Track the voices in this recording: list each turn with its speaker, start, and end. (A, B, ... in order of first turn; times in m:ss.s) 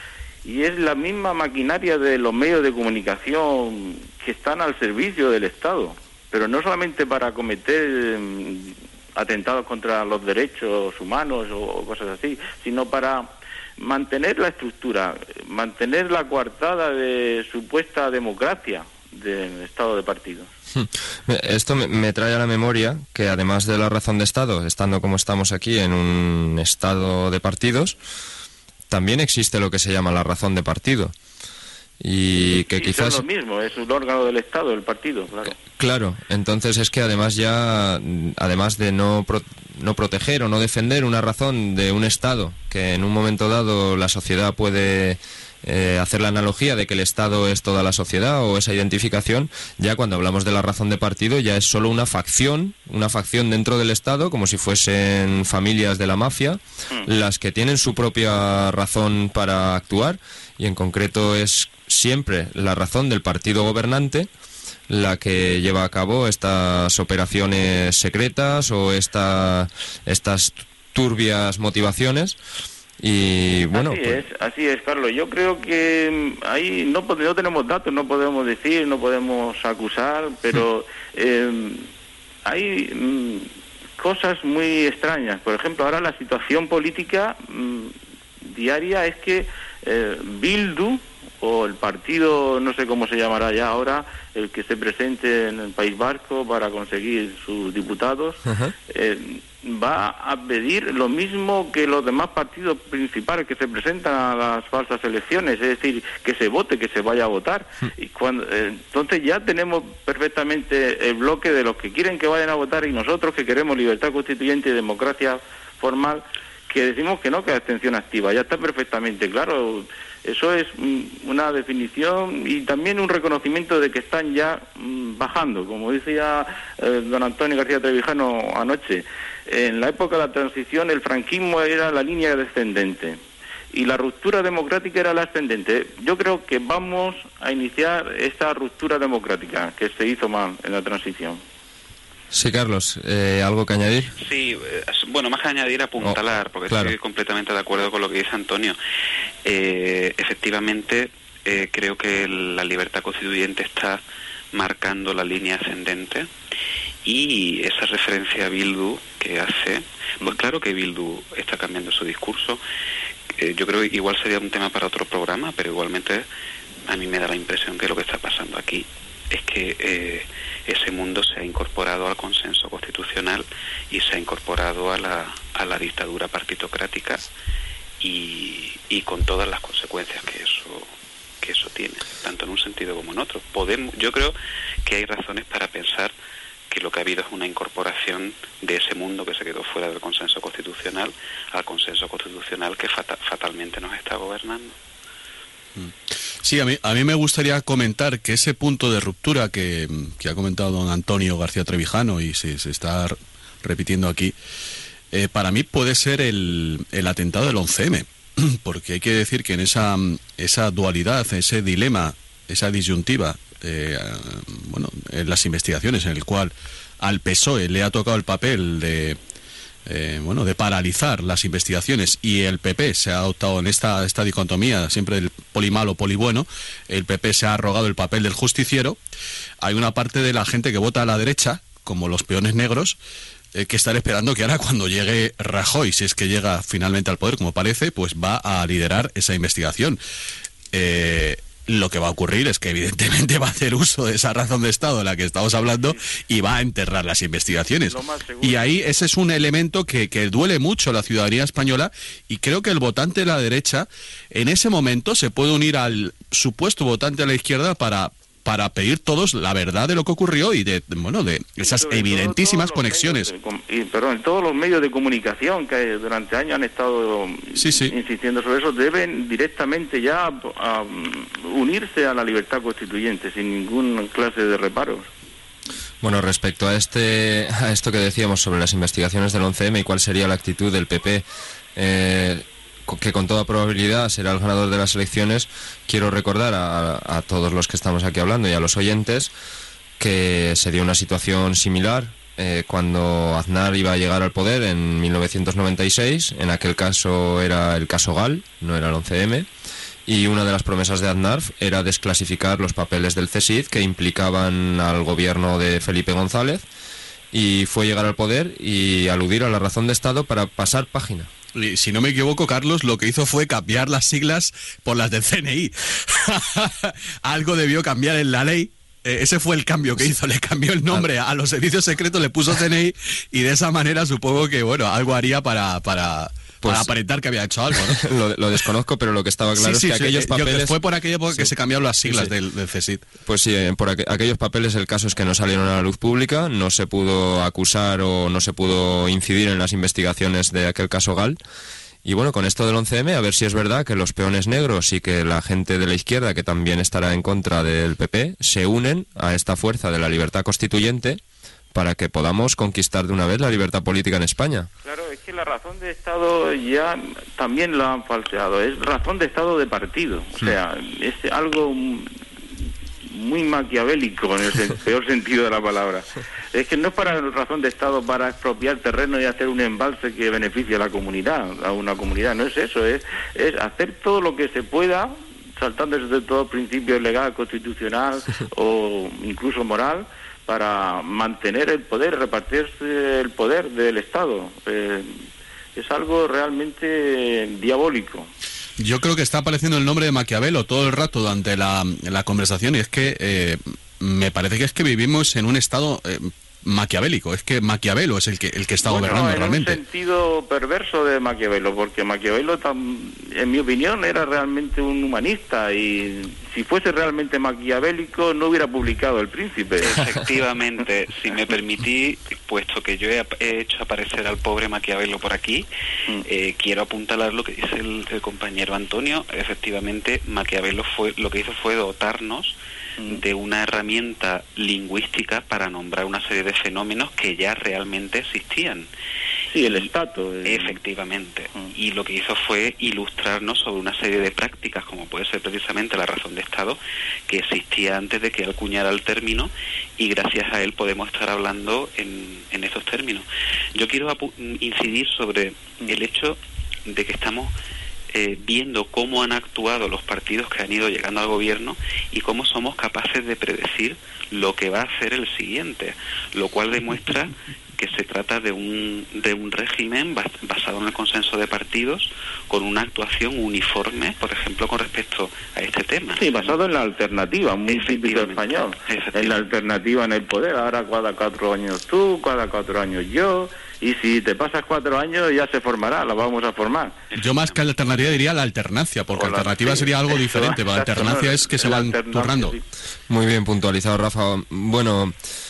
0:00.4-0:20.5 A
0:20.7-0:28.0 B
0:28.9-0:31.1 B
0:32.0-0:33.2 B
0:32.5-0:35.6 A
0:35.7-1:04.3 B
1:04.9-1:12.4 B
1:13.0-1:14.2 B
1:13.7-1:21.9 A
1:22.4-1:27.9 A
1:28.5-2:13.2 A
2:13.7-2:21.4 A
2:22.3-2:24.1 B
2:24.2-2:28.8 C
2:26.7-2:26.9 B
2:29.4-2:34.0 C
2:34.5-2:36.3 C
2:37.0-2:42.6 C
2:43.4-2:46.2 C
2:46.8-2:57.2 C
2:58.0-3:06.1 C
3:06.7-3:14.8 C
3:15.8-3:24.4 D
3:25.1-3:39.2 D
3:39.9-3:49.0 D
3:49.6-3:53.0 D
3:53.5-4:00.0 D
4:00.7-4:23.3 D
4:07.8-4:08.7 A
4:21.6-4:35.1 A
4:27.6-4:27.9 D
4:36.0-4:49.3 B
4:50.0-4:59.5 B
5:00.1-5:06.6 B
5:07.3-5:11.3 B
5:11.5-5:28.1 D
5:26.6-5:26.9 B
5:27.8-5:30.8 B
5:29.6-5:33.0 D
5:32.1-5:32.3 B
5:33.2-5:41.4 B
5:42.0-5:51.2 B
5:51.7-5:54.7 B
5:54.8-6:02.1 A
6:03.0-6:25.2 A
6:25.8-6:28.3 A
6:28.8-6:39.8 D
6:38.8-6:50.0 A
6:49.8-6:55.7 C
6:56.2-7:02.6 C
7:03.1-7:08.9 C
7:09.5-7:10.8 A
7:09.6-7:09.9 C
7:10.4-7:27.5 C
7:28.1-7:46.5 C
7:46.2-7:57.0 A
7:47.7-7:49.4 C
7:57.1-7:57.6 C
7:57.2-8:02.6 D
7:59.1-8:02.6 A
8:03.1-8:05.1 B